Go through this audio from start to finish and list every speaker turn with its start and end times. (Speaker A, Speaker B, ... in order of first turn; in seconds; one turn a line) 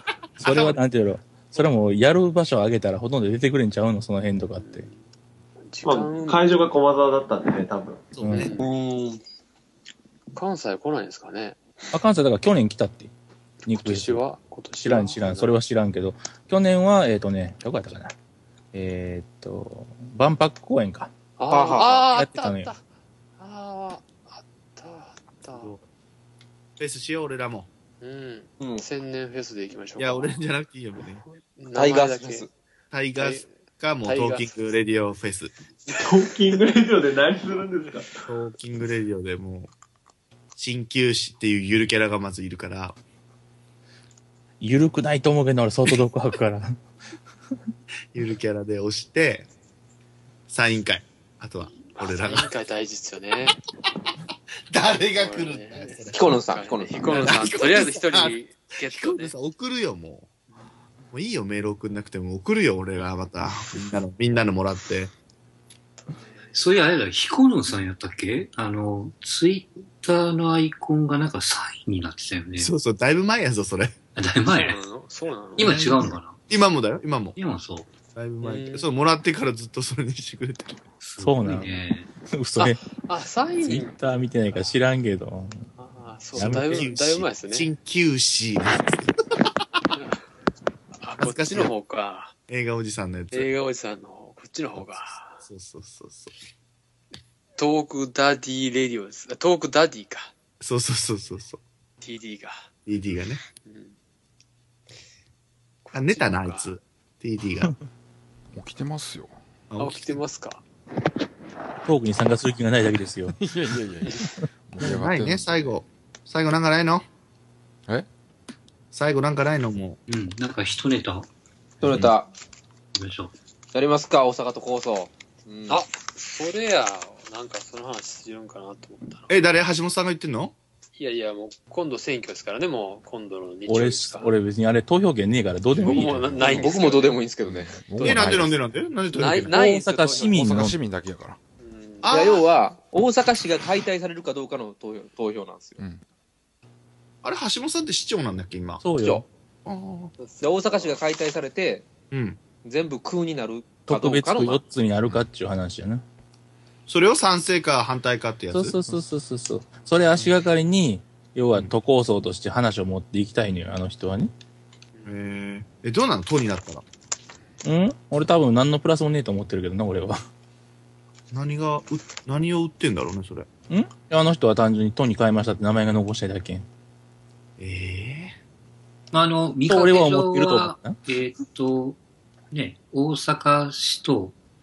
Speaker A: 0.4-0.8
Speaker B: 0.4-4.9
Speaker C: 4.6-5.0
Speaker C: 5.6-6.5
Speaker D: 5.8-8.1
Speaker A: 8.1-8.5
Speaker B: 8.2-8.5
Speaker C: 8.3-8.7
Speaker E: 8.6-9.2
Speaker C: 10.3-11.9
Speaker B: 11.9-13.1
Speaker B: 13.7-14.2
Speaker C: 13.7-15.6
Speaker B: 14.8-18.1
Speaker B: 18.7-21.1
Speaker C: 21.4-22.8
Speaker E: 21.5-22.0
Speaker B: 21.8-22.7
Speaker C: 23.4-25.7
Speaker A: 25.5-25.8
Speaker A: 26.8-27.7
Speaker C: 28.0-30.4
Speaker A: 30.0-31.2
Speaker C: 31.2-32.5
Speaker E: 31.7-32.5
Speaker A: 32.9-35.5
Speaker C: 33.1-34.5
Speaker C: 35.9-36.3
Speaker D: 35.9-38.2
Speaker A: 38.3-39.7
Speaker A: 40.6-43.0
Speaker B: 44.6-46.8
Speaker A: 48.1-49.5
Speaker A: 50.5-52.5
Speaker C: 51.9-53.6
Speaker A: 54.7-56.4
Speaker C: 55.0-59.3
Speaker E: 56.1-57.2
Speaker A: 57.0-60.3
Speaker A: 61.1-65.1
Speaker C: 66.1-66.6
Speaker F: 66.5-72.7
Speaker A: 72.6-73.9
Speaker F: 74.2-74.8
Speaker C: 74.5-75.8
Speaker F: 75.6-76.4
Speaker A: 75.6-77.4
Speaker F: 77.4-77.9
Speaker A: 78.1-80.8
Speaker C: 78.4-78.9
Speaker F: 81.0-82.1
Speaker B: 81.2-82.8
Speaker C: 82.6-84.0
Speaker B: 83.6-85.7
Speaker C: 85.8-87.7
Speaker B: 86.3-86.9
Speaker A: 86.3-89.1
Speaker C: 91.0-92.3
Speaker A: 91.2-91.7
Speaker A: 92.5-93.5
Speaker C: 93.3-95.4
Speaker A: 94.8-96.3
Speaker C: 97.6-100.3
Speaker A: 100.6-101.6
Speaker C: 102.0-102.7
Speaker A: 102.8-103.4
Speaker C: 103.6-103.9
Speaker C: 105.8-106.7
Speaker A: 105.9-107.8
Speaker G: 108.5-109.3
Speaker A: 109.7-110.2
Speaker C: 109.8-110.6
Speaker B: 111.8-113.4
Speaker G: 113.4-115.8
Speaker A: 114.8-117.0
Speaker A: 118.9-120.0
Speaker F: 120.1-121.3
Speaker G: 121.8-122.1
Speaker E: 121.8-122.3
Speaker F: 122.9-123.3
Speaker E: 123.7-125.8
Speaker C: 125.7-129.3
Speaker A: 129.3-130.5
Speaker C: 131.0-134.3
Speaker B: 133.7-136.7
Speaker C: 135.8-137.2
Speaker E: 136.4-137.8
Speaker G: 137.4-138.6
Speaker B: 138.0-138.2
Speaker A: 138.0-139.6
Speaker C: 139.1-140.7
Speaker B: 139.5-140.8
Speaker G: 140.2-141.4
Speaker C: 141.6-142.1
Speaker A: 142.0-142.4
Speaker E: 142.1-145.8
Speaker A: 147.2-148.9
Speaker B: 148.8-149.2
Speaker E: 148.9-149.2
Speaker A: 149.6-150.1
Speaker C: 150.2-151.0
Speaker E: 150.4-151.9
Speaker A: 152.1-152.4
Speaker E: 152.6-154.6
Speaker B: 153.9-156.0
Speaker A: 156.9-158.7
Speaker B: 158.5-164.3
Speaker C: 164.9-165.2
Speaker A: 165.1-166.8
Speaker B: 167.6-170.2
Speaker A: 171.3-173.5
Speaker B: 173.7-176.7
Speaker A: 177.6-178.3
Speaker F: 179.1-182.0
Speaker B: 179.7-181.0
Speaker F: 182.5-184.3